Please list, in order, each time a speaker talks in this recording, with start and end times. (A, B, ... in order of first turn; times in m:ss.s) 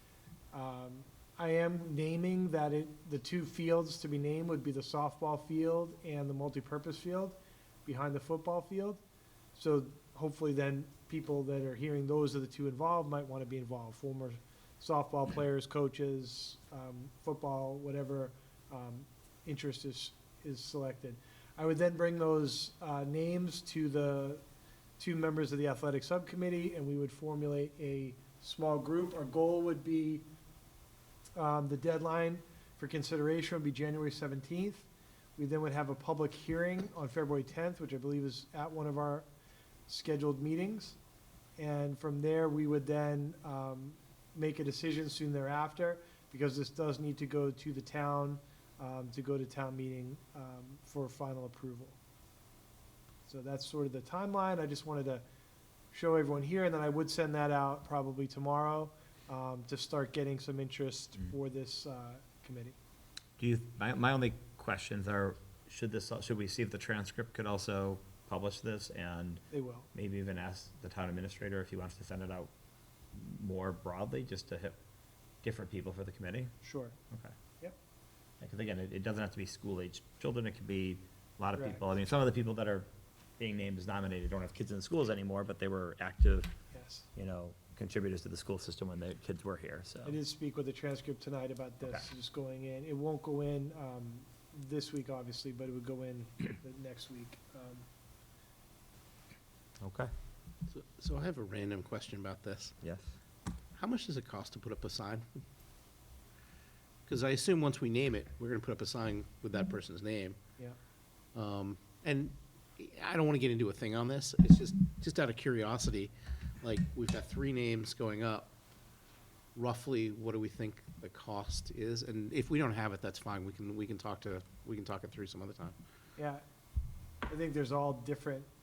0:00.5-0:09.0 A
0:09.5-0:24.4 A
0:25.0-0:30.2 A
0:31.3-0:39.3 A
0:39.9-0:41.0 A
0:41.6-0:52.0 A
0:53.2-0:55.2 A
0:55.9-1:02.8 A
1:03.4-1:09.4 B
1:09.5-1:09.9 A
1:09.9-1:12.5 B
1:13.1-1:14.8 B
1:15.4-1:16.5 B
1:16.6-1:16.9 A
1:18.4-1:22.9 B
1:21.6-1:21.9 A
1:23.4-1:26.5 B
1:26.7-1:27.1 A
1:27.1-1:30.2 B
1:30.0-1:37.8 A
1:39.8-1:40.1 B
1:40.7-1:42.8 C
1:42.8-1:43.1 B
1:43.7-1:45.3 C
1:47.0-1:50.4 C
1:51.3-1:58.5 C
1:59.5-2:05.7 C
2:06.2-2:06.4 A
2:07.2-2:08.5 A